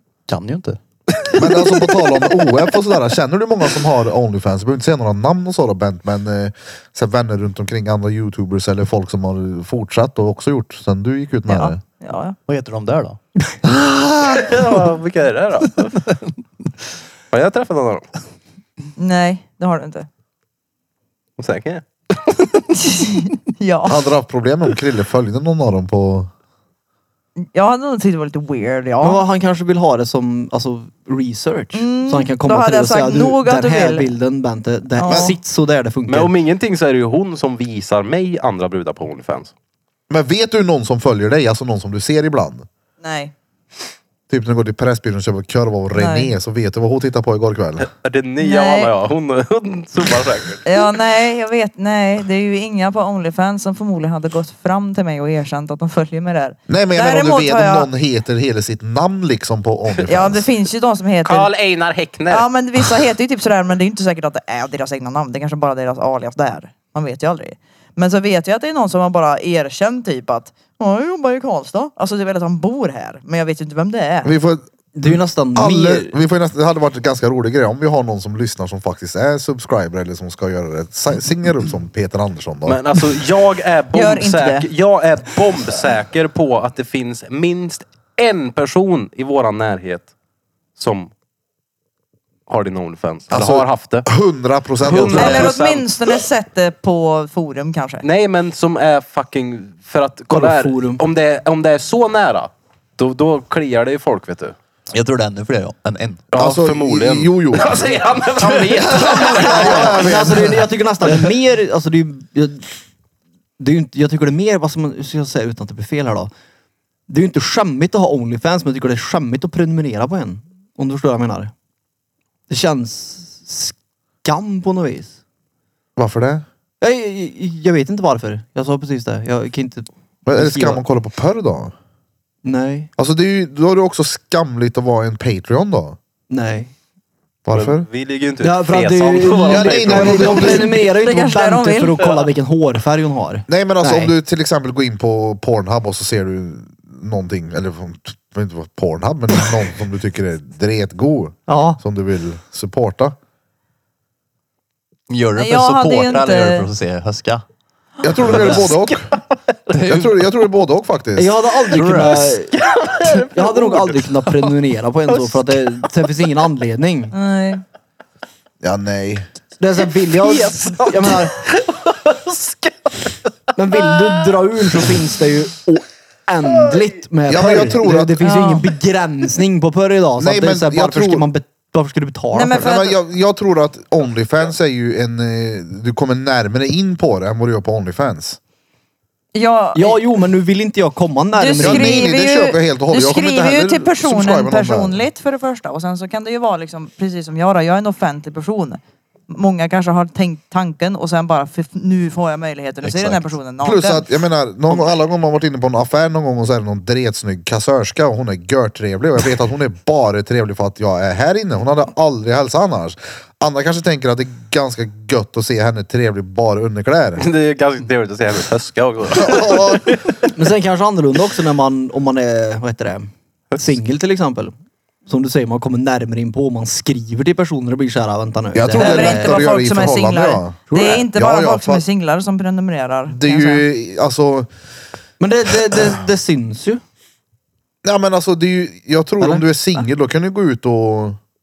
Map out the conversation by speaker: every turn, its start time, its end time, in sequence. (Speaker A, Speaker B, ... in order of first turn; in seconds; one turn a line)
Speaker A: 0.3-1.4
Speaker B: 1.3-11.8
Speaker C: 11.5-12.3
Speaker A: 12.5-13.2
Speaker B: 13.6-14.6
Speaker D: 14.2-16.1
Speaker D: 17.3-18.1
Speaker C: 18.9-20.1
Speaker D: 21.4-22.6
Speaker C: 22.7-24.0
Speaker B: 23.9-26.3
Speaker C: 27.4-29.2
Speaker E: 29.0-36.3
Speaker C: 31.7-34.1
Speaker C: 35.0-35.4
Speaker D: 36.1-39.5
Speaker B: 40.1-42.6
Speaker C: 43.0-43.3
Speaker B: 44.3-47.9
Speaker C: 45.9-46.3
Speaker D: 47.8-50.7
Speaker C: 48.4-48.9
Speaker C: 50.6-57.9
Speaker B: 56.7-60.5
Speaker C: 60.1-61.5
Speaker D: 61.2-63.0
Speaker C: 62.3-74.3
Speaker B: 74.2-82.8
Speaker E: 74.9-76.1
Speaker D: 82.7-90.1
Speaker C: 83.9-84.7
Speaker D: 90.8-91.1
Speaker D: 92.5-94.1
Speaker B: 93.3-95.5
Speaker D: 94.8-95.9
Speaker C: 95.0-98.0
Speaker D: 98.0-104.5
Speaker E: 100.3-101.0
Speaker A: 104.9-106.2
Speaker D: 106.3-110.2
Speaker B: 106.3-107.8
Speaker A: 108.4-109.8
Speaker B: 108.7-110.7
Speaker E: 109.5-112.7
Speaker E: 113.6-116.3
Speaker E: 117.1-121.5
Speaker E: 122.5-125.2
Speaker B: 126.0-126.4
Speaker E: 126.8-130.8
Speaker B: 130.2-131.7
Speaker E: 132.4-132.9
Speaker B: 133.0-136.0
Speaker E: 136.3-136.7
Speaker B: 137.4-137.8
Speaker D: 137.5-140.5
Speaker E: 138.4-144.1
Speaker B: 139.5-140.7
Speaker C: 140.3-142.2
Speaker B: 143.5-153.2
Speaker E: 151.5-151.8
Speaker A: 155.1-157.4
Speaker C: 155.3-156.7
Speaker B: 158.0-159.1
Speaker A: 158.2-158.8
Speaker A: 159.7-160.1
Speaker B: 159.7-161.4
Speaker E: 161.2-167.1
Speaker A: 161.7-162.3
Speaker D: 162.5-164.0
Speaker C: 167.1-167.6
Speaker B: 168.6-169.3
Speaker E: 169.6-171.3
Speaker D: 170.1-173.2
Speaker E: 173.5-182.6
Speaker B: 177.3-178.2
Speaker C: 178.2-178.7
Speaker B: 180.2-181.2
Speaker C: 182.3-182.9
Speaker B: 182.5-188.4
Speaker C: 189.3-190.0
Speaker E: 189.7-192.1
Speaker C: 191.3-204.2
Speaker B: 191.6-195.0
Speaker A: 202.8-203.3
Speaker B: 203.6-217.2
Speaker D: 217.2-220.3
Speaker B: 219.1-220.0
Speaker E: 220.3-224.5
Speaker E: 225.1-229.4
Speaker B: 228.5-231.8
Speaker C: 228.8-233.6
Speaker E: 230.7-231.0
Speaker B: 233.1-234.5
Speaker E: 235.2-236.8
Speaker B: 237.8-241.2